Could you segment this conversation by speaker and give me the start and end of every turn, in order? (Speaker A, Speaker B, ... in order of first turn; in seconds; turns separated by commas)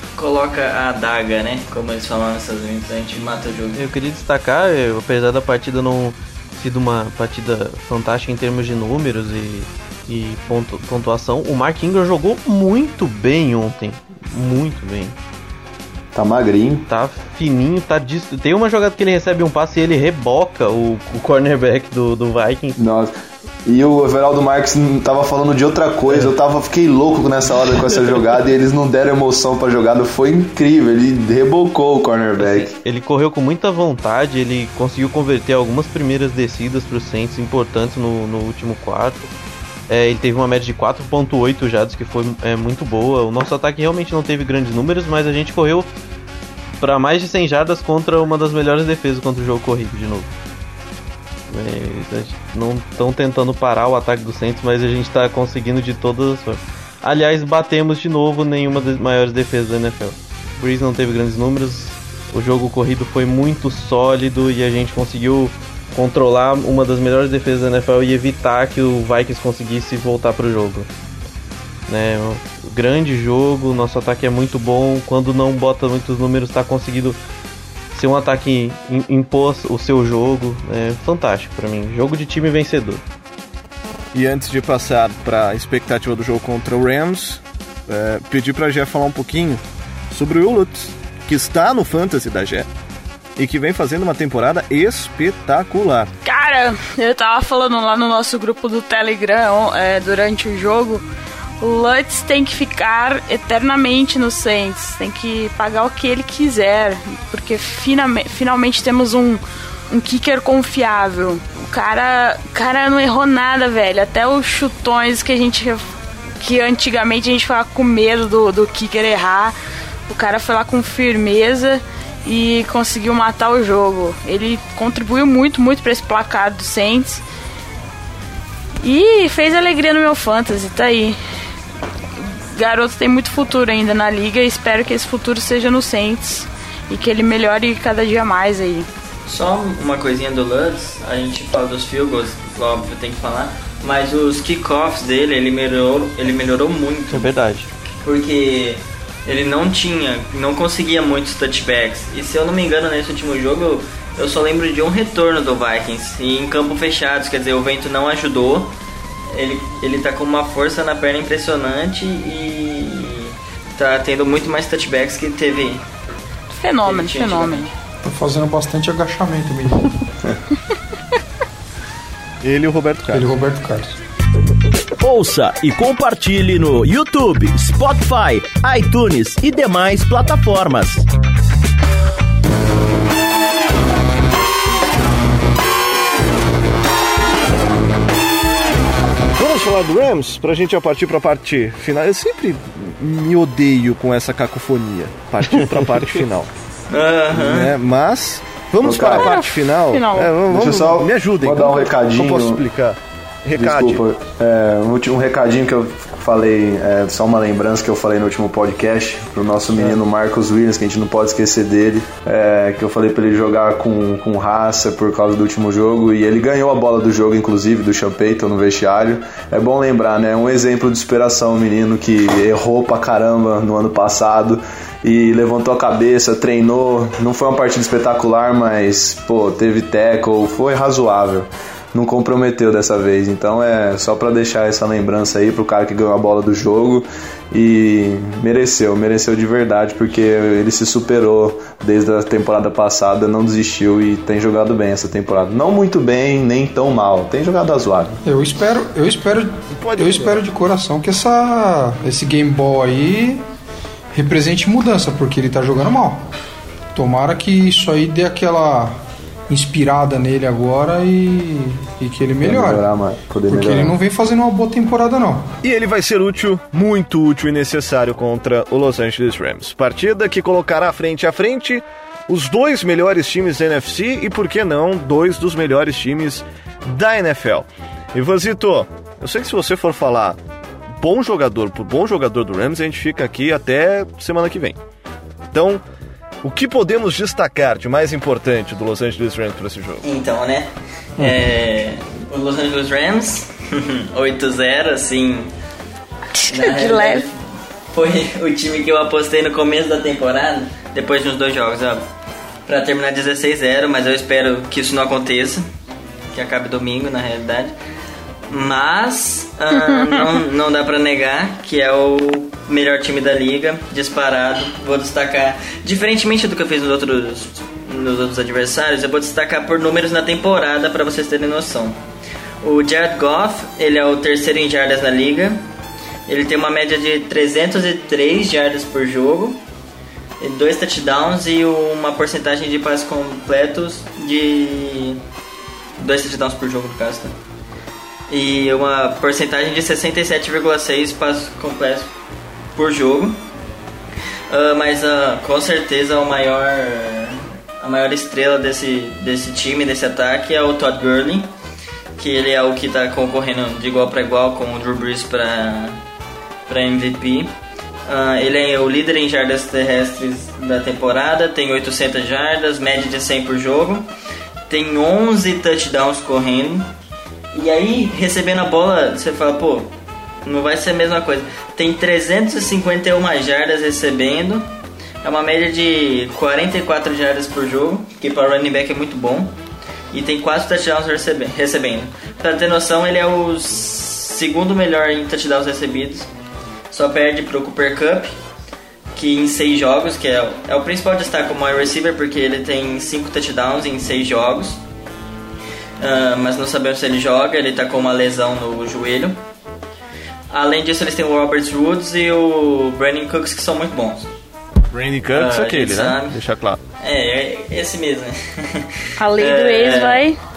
Speaker A: 0.1-3.8, Speaker B: 3.7-15.2, Speaker C: 16.1-16.8, Speaker B: 16.9-22.8, Speaker C: 22.8-23.1, Speaker C: 23.6-32.8, Speaker B: 32.4-39.3, Speaker B: 39.9-45.9, Speaker B: 46.8-50.3, Speaker B: 51.5-70.9, Speaker B: 71.9-77.2, Speaker B: 77.9-83.0, Speaker D: 84.1-92.7, Speaker D: 93.3-96.1, Speaker E: 96.2-101.0, Speaker E: 101.6-119.5, Speaker E: 120.1-127.2, Speaker E: 128.8-131.2, Speaker E: 132.2-138.9, Speaker A: 139.3-147.3, Speaker B: 147.1-147.7, Speaker A: 148.0-158.7, Speaker A: 159.3-165.8, Speaker E: 166.5-167.7, Speaker A: 166.8-167.7, Speaker F: 168.0-170.0, Speaker D: 172.4-173.3, Speaker F: 173.1-174.0, Speaker G: 175.0-181.0, Speaker D: 189.4-196.5, Speaker A: 196.9-197.8, Speaker D: 197.3-204.0, Speaker C: 198.8-199.3, Speaker E: 199.0-200.4, Speaker C: 200.4-202.6, Speaker C: 203.6-248.1, Speaker F: 248.2-253.4, Speaker D: 249.8-250.4, Speaker F: 254.1-256.3, Speaker F: 256.9-262.8, Speaker C: 262.4-263.9, Speaker F: 263.5-265.5, Speaker D: 265.6-280.4, Speaker D: 281.0-284.8, Speaker D: 285.5-285.8, Speaker D: 286.4-290.0, Speaker A: 290.0-295.5, Speaker E: 296.4-297.2, Speaker A: 296.5-302.1, Speaker A: 302.7-305.6, Speaker A: 306.3-307.7, Speaker A: 308.5-322.0, Speaker A: 322.6-325.6, Speaker A: 326.3-329.6, Speaker A: 330.4-335.2, Speaker A: 336.0-337.3, Speaker A: 338.3-342.1, Speaker A: 342.8-343.4, Speaker A: 344.5-351.5, Speaker A: 352.2-356.0, Speaker A: 356.7-357.5, Speaker A: 358.1-364.1, Speaker A: 364.7-366.9, Speaker A: 367.5-369.9, Speaker A: 370.4-374.7, Speaker A: 375.2-379.5, Speaker A: 380.1-386.3, Speaker A: 386.9-388.3, Speaker A: 389.1-394.8, Speaker A: 396.0-399.4, Speaker A: 400.5-404.3, Speaker D: 404.9-406.8, Speaker A: 405.3-406.4, Speaker A: 407.0-410.2, Speaker E: 409.2-410.4